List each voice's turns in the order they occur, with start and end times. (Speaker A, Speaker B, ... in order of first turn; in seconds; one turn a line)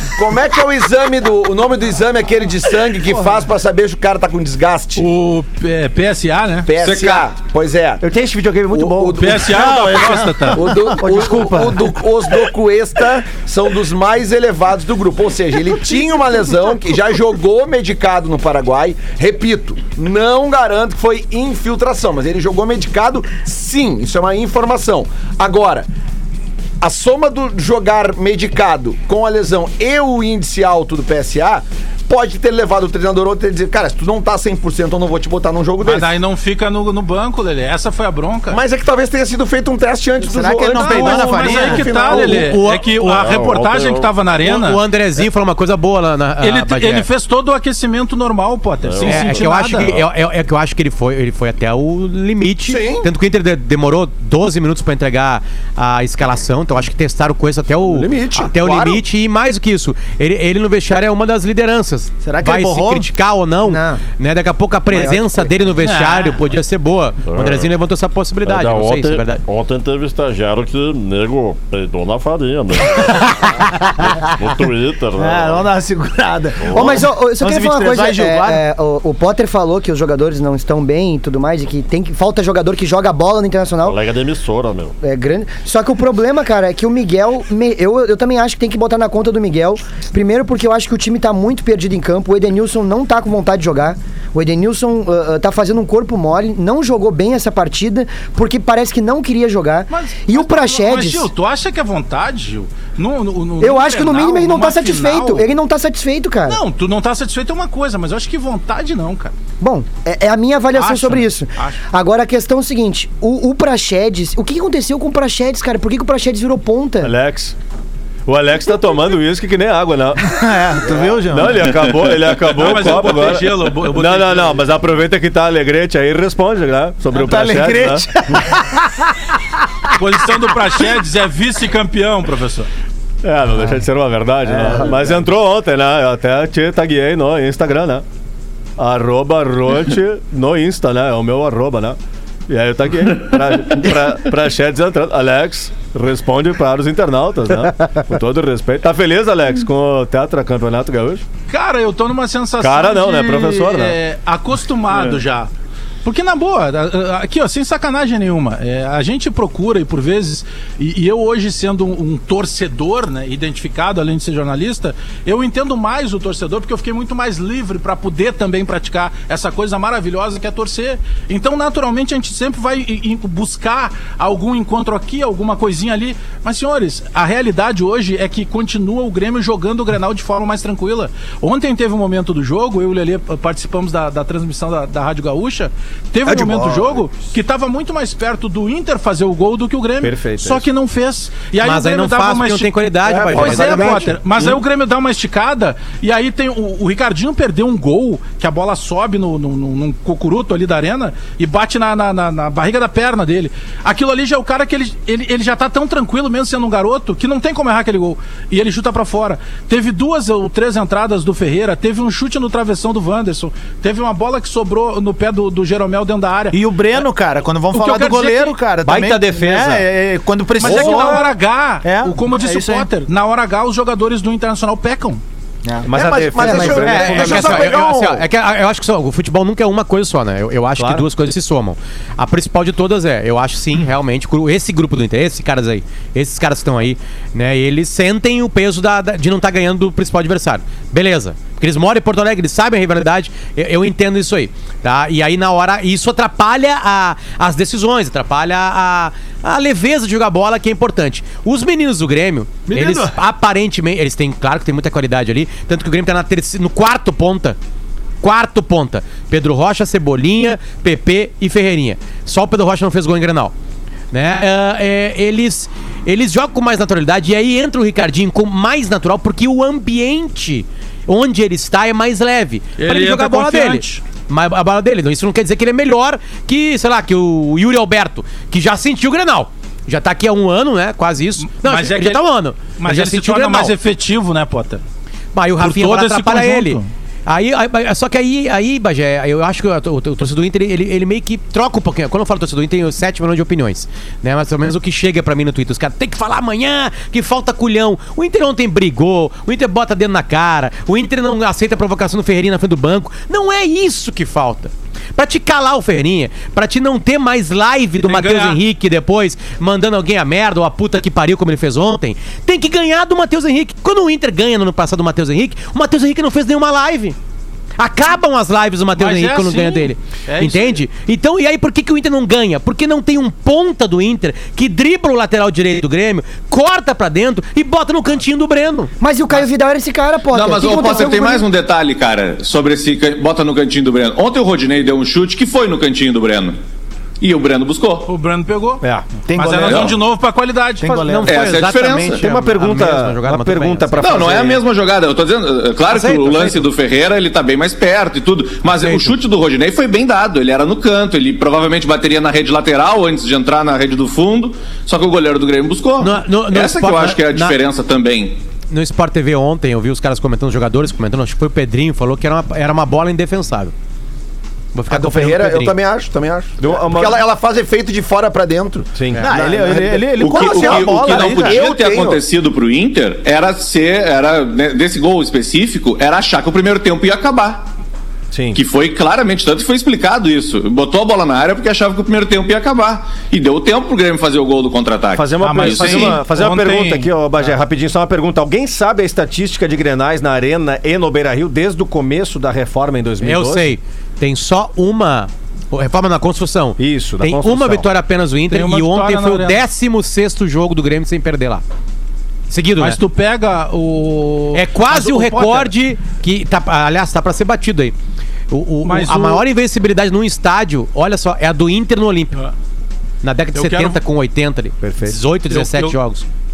Speaker A: 0.1-5.1
Speaker B: 3.0-3.3
Speaker C: 5.0-6.7
Speaker A: 6.7-8.0
Speaker D: 6.8-7.2
Speaker B: 8.0-9.7
Speaker A: 8.7-9.9
Speaker C: 9.2-10.7
Speaker E: 9.5-11.0
Speaker A: 10.5-25.9
Speaker B: 11.0-12.0
Speaker A: 26.8-36.1
Speaker C: 35.8-38.6
Speaker A: 38.5-42.5
Speaker E: 40.2-41.9
Speaker C: 40.7-44.8
Speaker F: 40.8-43.2
Speaker G: 43.0-44.1
Speaker F: 44.4-47.1
Speaker C: 46.4-49.9
Speaker G: 48.8-50.0
Speaker F: 49.0-69.4
Speaker A: 52.6-53.1
Speaker A: 57.9-59.0
Speaker E: 62.2-63.1
Speaker H: 63.6-64.0
Speaker C: 65.8-66.4
Speaker G: 67.3-67.7
Speaker G: 68.4-75.7
Speaker E: 72.9-74.3
Speaker E: 75.2-78.6
Speaker G: 76.6-77.1
Speaker H: 76.7-84.0
Speaker G: 83.8-84.9
Speaker H: 85.0-101.3
Speaker C: 99.9-105.5
Speaker H: 103.6-106.6
Speaker C: 106.5-109.3
Speaker H: 109.6-117.1
Speaker C: 110.7-111.8
Speaker B: 117.0-117.5
Speaker B: 118.2-128.1
Speaker E: 120.3-121.8
Speaker C: 122.4-124.6
Speaker E: 127.1-129.1
Speaker C: 130.0-132.7
Speaker B: 133.2-138.0
Speaker B: 138.8-151.2
Speaker C: 151.5-155.5
Speaker B: 152.6-154.0
Speaker B: 154.9-155.2
Speaker C: 156.0-217.1
Speaker A: 186.3-186.7
Speaker B: 190.0-190.7
Speaker F: 191.6-194.0
Speaker A: 193.1-194.1
Speaker B: 193.1-194.0
Speaker E: 216.5-221.3
Speaker C: 217.7-218.6
Speaker B: 218.8-219.9
Speaker C: 220.6-225.2
Speaker B: 220.7-221.0
Speaker E: 221.8-222.9
Speaker E: 225.6-225.9
Speaker B: 225.8-227.7
Speaker A: 225.9-228.3
Speaker H: 226.4-226.9
Speaker F: 226.8-257.6
Speaker B: 230.8-231.0
Speaker E: 252.7-253.2
Speaker F: 258.2-263.5
Speaker F: 264.1-283.7
Speaker C: 272.8-274.0
Speaker C: 281.4-284.8
Speaker F: 285.3-317.2
Speaker C: 285.6-286.9
Speaker C: 308.0-308.6
Speaker F: 317.8-328.9
Speaker C: 318.9-320.8
Speaker H: 329.0-331.5
Speaker D: 330.3-336.6
Speaker D: 337.2-338.1
Speaker C: 338.1-338.8
Speaker B: 338.8-339.1
Speaker E: 339.3-340.0
Speaker C: 339.3-340.8
Speaker D: 339.6-339.9
Speaker E: 340.8-342.2
Speaker F: 340.9-344.4
Speaker D: 341.2-342.2
Speaker B: 342.2-344.6
Speaker D: 344.0-358.3
Speaker F: 345.9-346.6
Speaker F: 348.8-349.1
Speaker F: 356.0-357.6
Speaker F: 358.7-363.7
Speaker F: 364.7-365.8
Speaker A: 364.9-372.2
Speaker B: 366.6-367.2
Speaker B: 368.9-369.8
Speaker E: 369.2-371.7
Speaker D: 370.2-377.6
Speaker B: 378.3-378.6
Speaker D: 378.5-386.2
Speaker B: 385.1-393.7
Speaker C: 385.4-387.1
Speaker F: 393.2-401.6
Speaker B: 396.8-397.9
Speaker C: 398.5-399.6
Speaker F: 402.5-403.0
Speaker C: 402.8-405.7
Speaker F: 404.5-407.9
Speaker F: 408.5-412.3
Speaker C: 408.8-409.4
Speaker F: 413.2-416.2
Speaker C: 413.5-414.0
Speaker B: 414.8-415.2
Speaker C: 415.5-415.9